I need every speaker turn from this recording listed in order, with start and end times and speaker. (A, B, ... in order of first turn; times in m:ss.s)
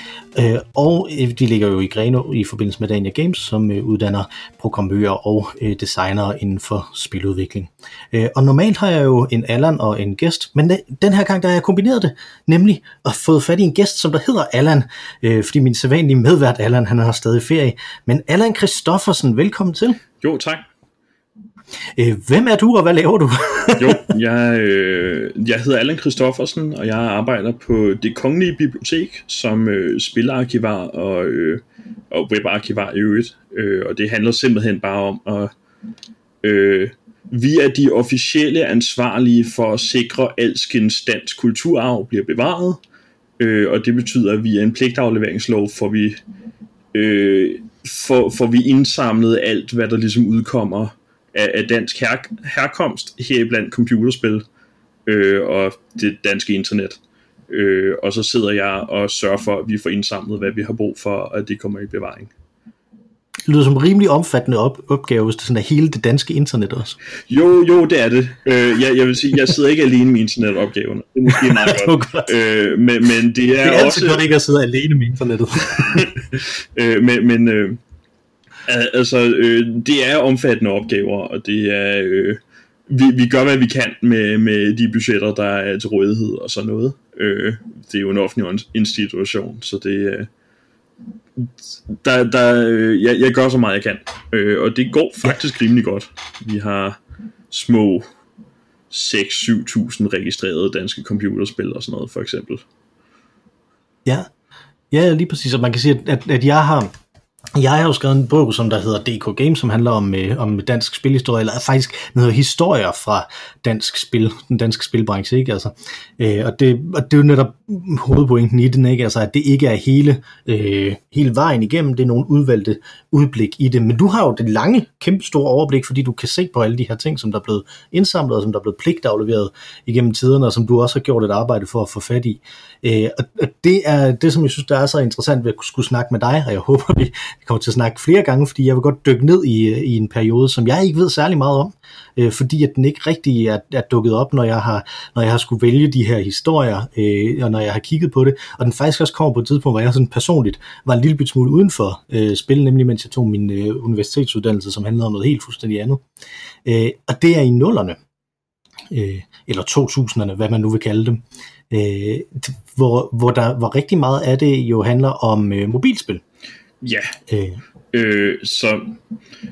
0:00.4-0:20.0 A
0:20.2-0:20.6 B
0:22.0-0:24.1 A
0:23.8-0:35.5 B
0:36.4-0:42.8 B
0:43.4-0:46.2 B
0:46.9-0:54.4 B
0:55.1-1:02.3 B
1:03.5-1:07.0 A
1:07.3-1:14.2 B
1:11.3-1:12.3 A
1:13.6-1:16.1 A
1:15.9-1:17.8 B
1:18.7-1:30.3 B
1:31.4-1:37.0 B
1:37.5-1:38.1 B
1:38.9-1:42.6 B
1:44.9-1:46.9 A
1:47.5-2:36.0 A
2:36.6-2:38.0 A
2:38.9-2:46.2 A
2:46.8-2:47.2 B
2:47.3-2:47.6 A
2:47.9-2:48.9 B